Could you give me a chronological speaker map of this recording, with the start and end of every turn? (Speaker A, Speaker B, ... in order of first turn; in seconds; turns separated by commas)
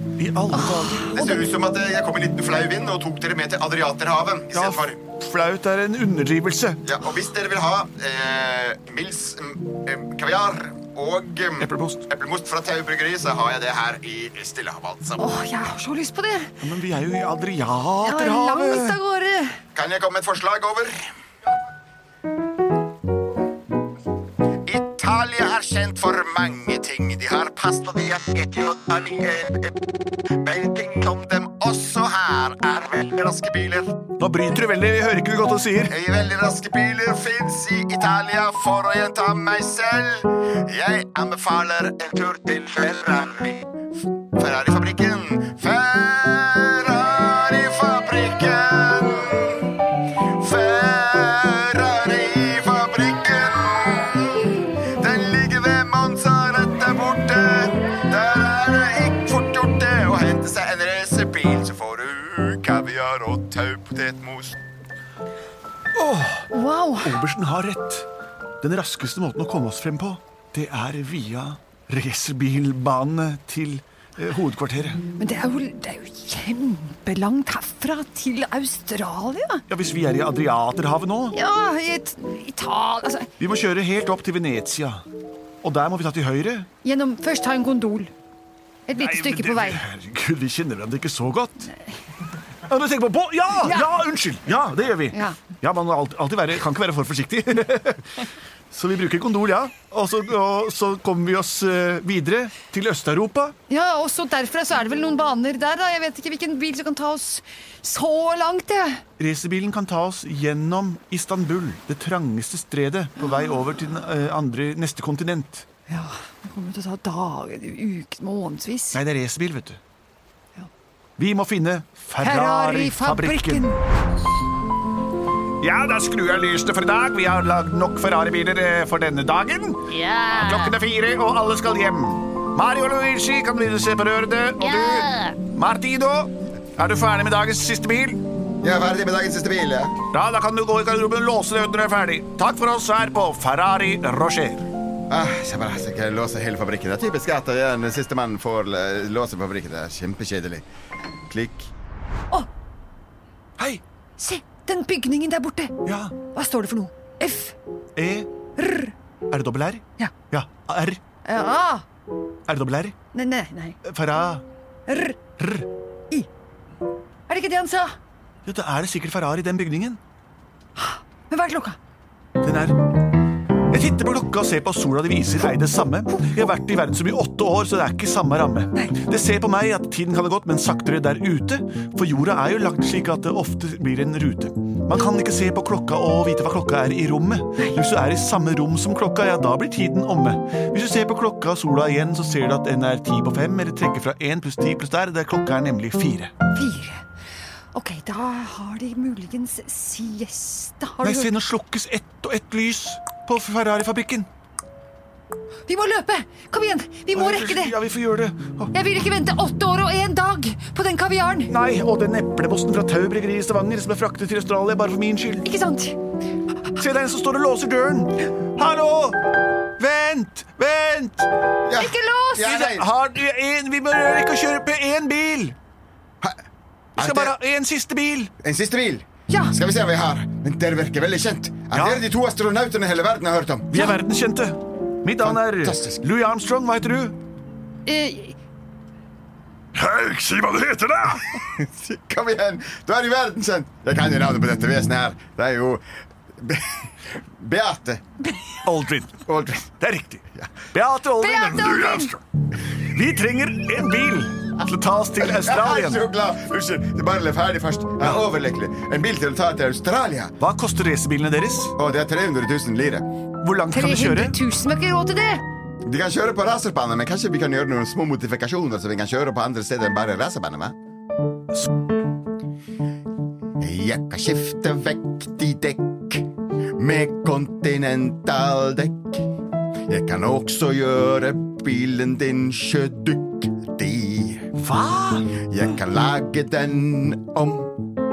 Speaker A: 0.2-1.1, Speaker B: 0.5-1.5, Speaker C: 1.1-5.0, Speaker A: 4.5-6.8, Speaker C: 6.8-15.3, Speaker A: 11.6-12.1, Speaker B: 15.2-16.6, Speaker A: 16.6-18.9, Speaker B: 18.0-19.6, Speaker C: 19.7-21.0, Speaker C: 24.6-29.9, Speaker C: 30.4-34.0, Speaker A: 34.2-35.9, Speaker C: 35.9-43.6, Speaker C: 44.3-49.8, Speaker C: 50.4-64.6, Speaker A: 65.9-66.5, Speaker B: 66.5-67.2, Speaker A: 67.0-68.1, Speaker A: 68.6-75.0, Speaker B: 75.2-79.6, Speaker A: 79.7-81.4, Speaker B: 81.3-83.3, Speaker A: 83.4-85.0, Speaker A: 85.6-86.7, Speaker B: 86.8-88.1, Speaker B: 88.9-89.8, Speaker A: 89.0-91.7, Speaker A: 92.7-103.5, Speaker B: 93.6-94.0, Speaker B: 95.1-95.4, Speaker B: 103.7-109.0, Speaker A: 109.2-115.7, Speaker B: 115.9-119.0, Speaker A: 118.9-119.8, Speaker A: 121.2-123.7, Speaker B: 122.2-123.8, Speaker A: 125.6-138.2, Speaker B: 129.9-130.7, Speaker B: 134.6-135.3, Speaker C: 138.6-139.9, Speaker A: 140.1-144.7, Speaker C: 145.1-150.6, Speaker C: 151.3-151.7, Speaker A: 153.6-153.8, Speaker B: 154.2-155.7, Speaker A: 155.8-156.2, Speaker B: 156.3-157.6, Speaker A: 157.9-158.3, Speaker B: 158.6-158.9, Speaker A: 159.3-161.0, Speaker B: 161.2-161.8, Speaker A: 162.5-163.0, Speaker B: 163.1-163.8, Speaker A: 163.8-164.4, Speaker B: 164.9-165.2, Speaker A: 165.4-165.7, Speaker B: 167.3-167.9, Speaker A: 168.4-170.0, Speaker B: 170.8-171.8, Speaker A: 172.4-172.9, Speaker A: 173.7-196.3, Speaker B: 196.5-197.0, Speaker B: 197.7-201.3, Speaker A: 201.0-204.3, Speaker B: 205.7-207.8, Speaker A: 207.1-208.7, Speaker B: 208.7-211.5, Speaker A: 211.5-215.5, Speaker B: 215.4-216.0, Speaker A: 216.7-219.2, Speaker A: 219.8-221.3, Speaker C: 221.6-222.9, Speaker B: 221.8-222.5, Speaker A: 222.4-225.6, Speaker C: 227.0-227.3, Speaker A: 227.0-228.3, Speaker C: 228.4-233.9, Speaker B: 229.3-229.5, Speaker A: 231.7-232.0, Speaker A: 233.7-237.2, Speaker C: 235.2-236.0, Speaker B: 237.8-238.3, Speaker A: 239.7-241.4, Speaker C: 241.3-245.8, Speaker C: 246.4-248.0, Speaker A: 248.6-252.2, Speaker C: 249.2-249.7, Speaker B: 251.2-252.1, Speaker A: 252.8-256.0, Speaker C: 255.2-260.3, Speaker A: 258.0-258.2, Speaker A: 260.4-261.7, Speaker C: 261.8-263.1, Speaker A: 263.4-264.4, Speaker B: 263.7-265.4, Speaker C: 265.9-270.7, Speaker C: 273.6-279.3, Speaker C: 279.9-284.5, Speaker A: 284.6-285.3, Speaker C: 285.5-287.8